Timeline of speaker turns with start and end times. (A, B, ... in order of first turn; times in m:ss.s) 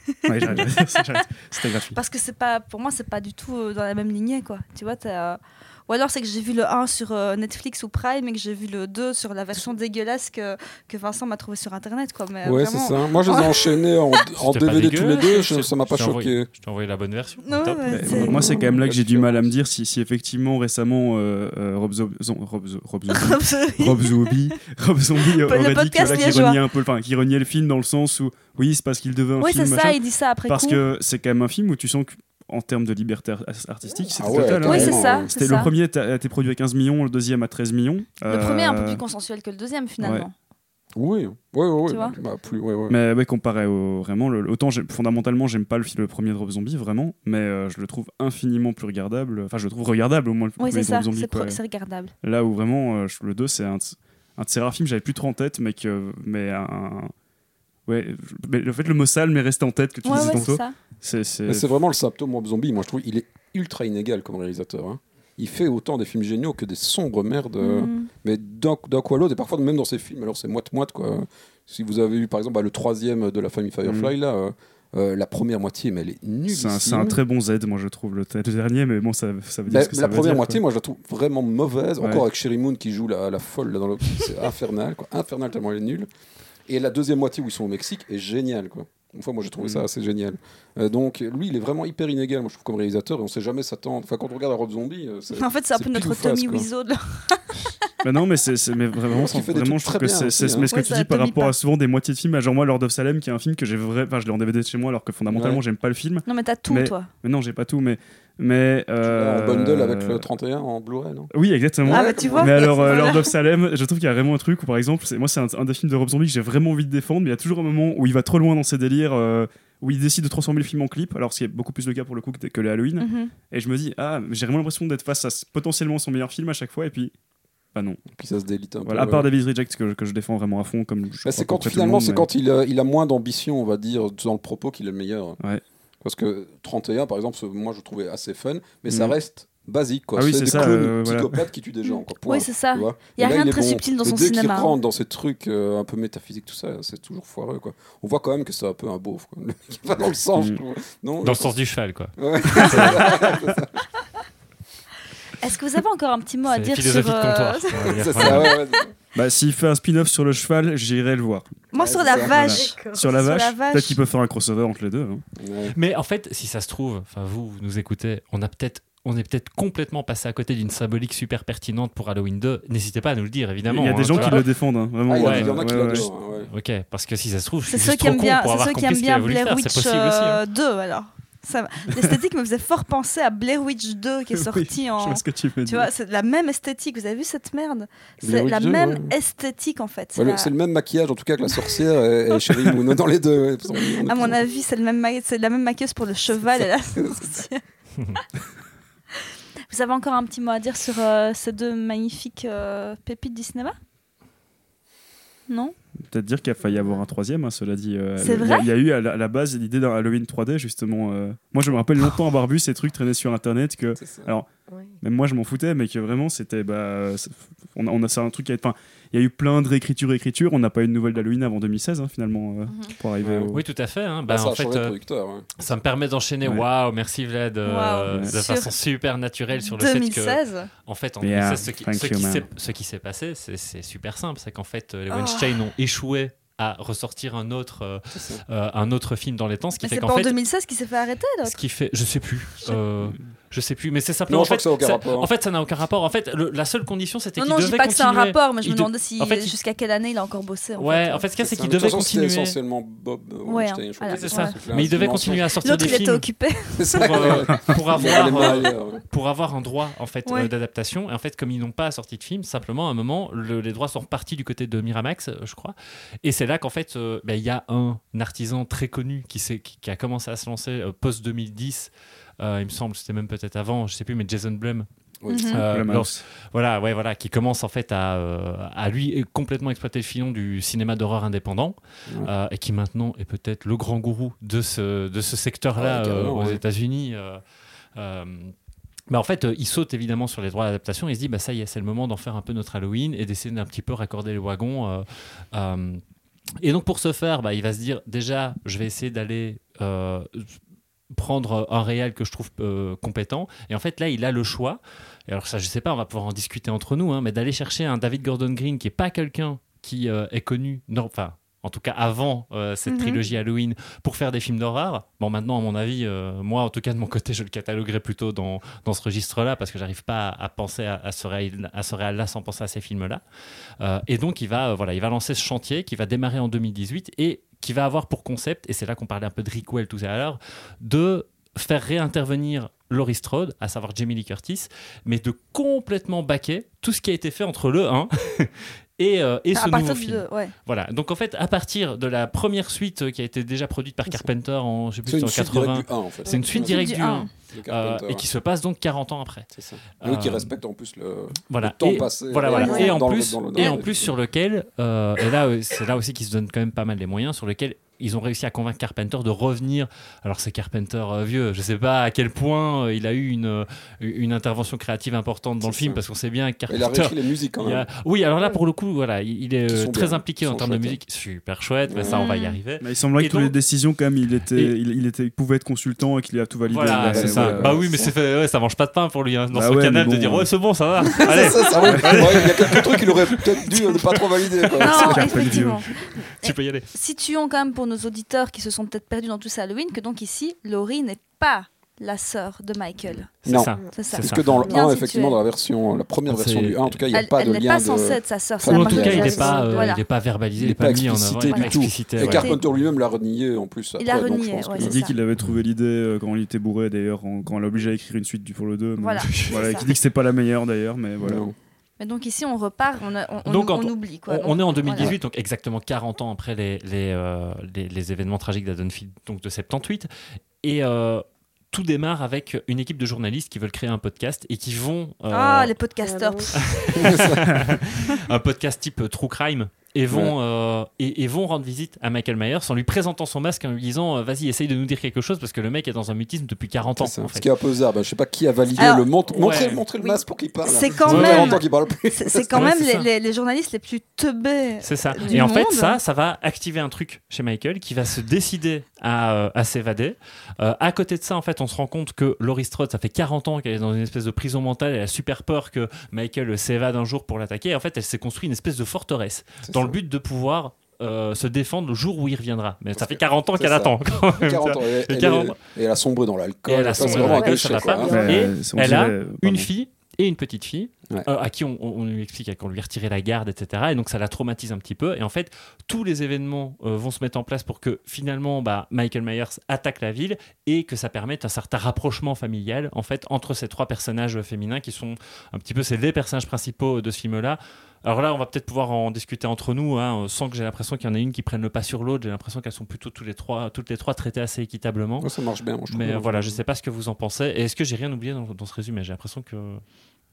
0:00.2-0:01.2 A
0:00.2-0:02.0 B
0:01.9-0:14.2 A
0:12.4-0:16.5 C
0:14.4-0:18.0 D
0:17.4-0:18.6 A
0:17.9-0:39.0 B
0:18.1-0:19.5 C
0:23.1-0:24.3 A
0:25.2-0:26.6 A
0:29.4-0:30.8 A
0:34.2-0:35.3 C
0:34.6-0:35.7 A
0:38.3-0:40.3 A
0:40.0-0:40.3 B
0:40.9-0:43.0 C
0:41.9-0:42.2 A
0:42.9-0:51.6 B
0:50.6-0:52.1 A
0:52.2-0:57.1 B
0:57.9-1:01.7 B
1:00.0-1:00.7 A
1:00.1-1:00.4 C
1:01.5-1:17.2 C
1:07.6-1:08.1 A
1:13.8-1:14.1 B
1:16.5-1:20.6 B
1:19.7-1:26.1 C
1:26.7-1:36.7 C
1:35.3-1:37.7 A
1:38.0-1:50.3 B
1:39.1-1:40.7 C
1:40.6-1:41.5 A
1:45.3-1:45.6 C
1:46.2-1:47.1 A
1:49.0-1:51.3 C
1:51.3-2:07.1 B
1:51.8-1:53.2 C
1:51.9-1:53.3 A
2:03.0-2:03.3 A
2:07.7-2:08.0 B
2:08.1-2:09.3 C
2:08.8-2:12.3 B
2:11.2-2:15.4 C
2:16.0-2:31.5 C
2:18.9-2:19.1 B
2:20.2-2:21.4 B
2:21.8-2:24.8 A
2:30.3-2:30.6 B
2:31.2-2:33.3 D
2:32.2-2:33.8 C
2:32.5-2:33.2 A
2:35.4-2:38.8 A
2:36.5-2:38.6 D
2:37.8-2:38.9 C
2:39.1-2:41.6 B
2:41.7-2:44.0 A
2:41.8-2:42.6 C
2:42.1-2:43.1 E
2:42.3-2:45.2 B
2:45.4-2:45.7 C
2:45.7-2:54.4 D
2:53.7-2:56.1 B
2:54.1-2:54.4 A
2:55.1-2:56.5 C
2:55.1-3:00.4 D
2:57.7-3:10.5 A
3:04.3-3:05.9 B
3:08.2-3:09.1 C
3:10.2-3:14.4 C
3:13.8-3:17.6 A
3:16.9-3:17.4 C
3:19.7-3:23.8 A
3:25.5-3:25.7 A
3:26.1-3:34.5 B
3:26.6-3:26.9 E
3:28.2-3:28.7 A
3:34.0-3:34.3 C
3:34.7-3:34.9 E
3:35.0-3:43.6 B
3:42.7-3:42.9 A
3:43.2-3:43.6 C
3:43.5-3:44.9 D
3:44.2-3:45.5 C
3:45.6-4:00.4 D
3:47.6-3:48.7 A
3:48.1-3:48.3 B
3:49.6-3:50.7 A
3:51.2-3:52.5 B
3:55.1-3:55.6 A
3:58.1-3:58.4 C
3:59.8-4:01.6 A
4:01.4-4:09.5 D
4:04.3-4:05.3 C
4:07.4-4:11.2 A
4:10.8-4:12.6 D
4:11.4-4:16.0 C
4:13.4-4:14.6 A
4:14.0-4:16.3 D
4:15.6-4:17.2 A
4:16.8-4:19.0 C
4:16.9-4:34.9 D
4:35.2-4:35.6 C
4:35.3-4:35.6 A
4:35.5-4:47.4 D
4:35.7-4:36.2 B
4:45.8-4:46.6 C
4:48.0-4:48.5 D
4:49.1-4:56.0 D
4:56.6-5:00.5 D
5:01.1-5:23.2 D
5:12.9-5:13.2 A
5:23.8-5:49.5 D
5:39.5-5:40.5 A
5:45.0-5:48.2 C
5:46.5-5:47.3 A
5:49.5-5:54.1 C
5:50.0-5:50.5 D
5:51.5-6:13.5 D
5:52.5-5:52.9 E
5:52.5-5:52.9 A
5:53.6-5:53.8 A
6:05.6-6:06.0 C
6:06.7-6:07.9 C
6:09.7-6:11.0 C
6:11.9-6:12.3 C
6:12.0-6:12.6 A
6:12.8-6:17.9 B
6:16.7-6:25.6 D
6:17.0-6:17.9 C
6:19.5-6:20.5 B
6:21.2-6:22.5 B
6:21.2-6:25.5 C
6:24.8-6:33.3 A
6:25.0-6:25.8 B
6:26.2-6:26.9 D
6:33.4-6:39.6 C
6:33.4-6:34.7 D
6:33.8-6:34.1 E
6:33.9-6:35.4 A
6:34.7-6:35.0 E
6:36.3-6:37.0 D
6:37.1-6:40.0 A
6:38.7-6:42.6 D
6:39.1-6:39.9 E
6:40.6-6:45.0 C
6:41.5-6:42.6 A
6:44.0-6:45.1 A
6:44.8-6:51.4 B
6:49.0-6:49.9 A
6:49.2-6:49.9 D
6:51.2-6:51.5 C
6:52.0-6:55.1 A
6:53.4-7:00.1 D
7:00.6-7:05.7 D
7:05.3-7:07.2 A
7:06.0-7:06.5 E
7:06.5-7:17.5 D
7:06.9-7:07.7 C
7:10.1-7:10.3 C
7:17.0-7:22.7 C
7:18.8-7:19.1 A
7:19.3-7:19.8 D
7:20.6-7:26.0 A
7:21.0-7:21.6 D
7:22.5-7:23.1 D
7:24.8-7:45.6 D
7:39.6-7:40.0 C
7:42.9-7:48.3 C
7:46.6-8:15.3 D
7:47.0-7:48.6 E
7:48.1-7:49.7 B
8:15.2-8:16.6 C
8:15.9-8:19.8 D